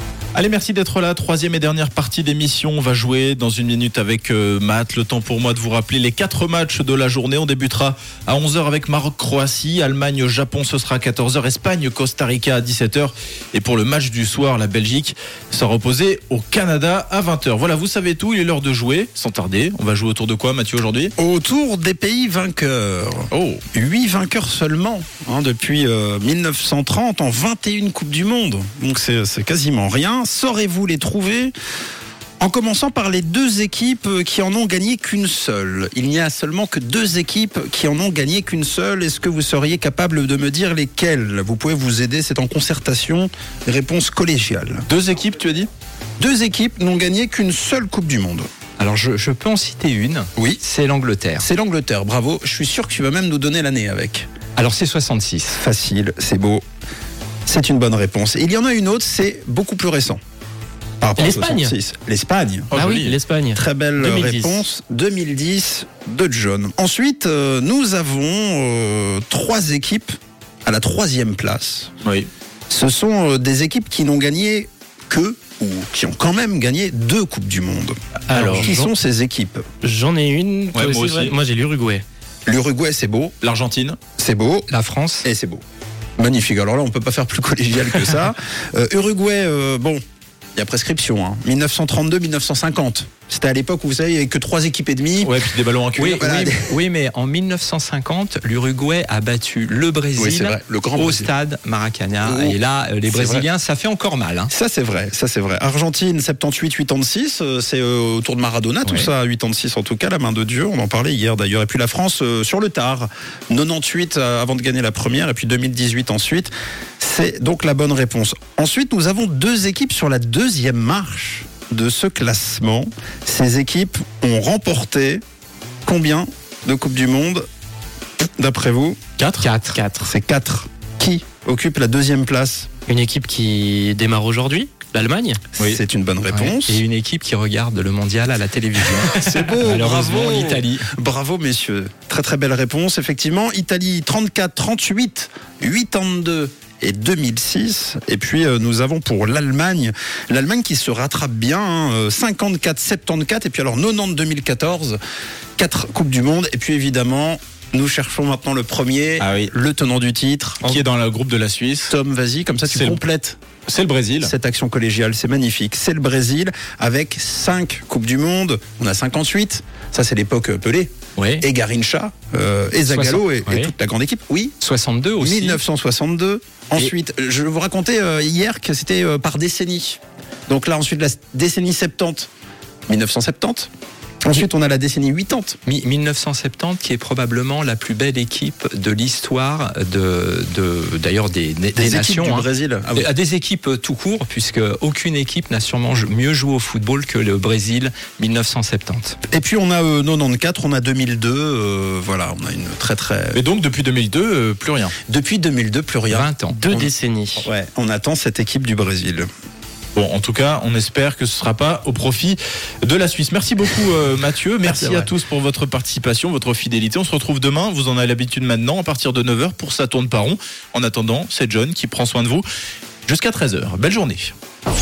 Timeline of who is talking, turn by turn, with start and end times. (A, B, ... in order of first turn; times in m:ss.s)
0:00.3-0:21.1 A
0:21.2-0:31.5 B
0:23.3-0:23.6 A
0:32.4-0:44.8 B
0:44.9-0:45.7 A
0:46.2-0:48.5 B
0:48.8-0:51.5 C
0:51.4-0:54.3 B
0:54.6-0:55.6 C
0:55.5-0:56.6 B
0:57.4-1:00.2 B
1:01.0-1:02.7 B
1:01.2-1:01.7 D
1:02.7-1:03.2 A
1:02.7-1:04.6 D
1:03.5-1:10.1 B
1:10.6-1:11.9 B
1:12.0-1:12.3 A
1:12.7-1:19.6 B
1:18.3-1:18.7 A
1:18.3-1:18.9 D
1:19.8-1:22.0 D
1:20.7-1:21.4 A
1:22.4-1:23.3 B
1:23.4-1:24.0 A
1:24.2-1:24.7 B
1:24.7-1:25.3 C
1:25.2-1:25.6 B
1:26.2-1:30.0 B
1:30.5-1:35.4 B
1:35.2-1:36.2 A
1:36.0-1:44.5 C
1:36.2-1:36.7 B
1:40.2-1:41.3 B
1:42.2-1:43.5 B
1:44.5-2:05.2 B
2:05.8-2:07.4 B
2:08.4-2:09.0 B
2:09.2-2:09.5 A
2:09.4-2:09.8 C
2:09.7-2:10.1 D
2:10.0-2:12.7 B
2:12.9-2:15.4 D
2:15.5-2:16.8 B
2:16.3-2:20.9 C
2:19.1-2:35.0 B
2:35.6-2:40.8 B
2:39.2-2:39.5 A
2:40.6-2:41.9 A
2:41.9-2:43.4 B
2:42.7-2:43.0 A
2:43.7-2:44.3 A
2:44.2-2:54.6 B
2:51.2-2:51.4 C
2:52.9-2:53.7 C
2:54.6-2:55.6 C
2:55.2-3:02.3 B
3:02.9-3:03.7 B
3:04.2-3:05.6 B
3:05.6-3:19.2 C
3:11.8-3:13.1 B
3:19.3-3:23.4 B
3:23.3-3:25.0 A
3:25.1-3:26.9 B
3:26.1-3:26.6 C
3:26.5-3:27.5 D
3:27.4-3:29.3 B
3:30.0-3:42.4 A
3:34.6-3:35.1 B
3:43.0-3:44.3 A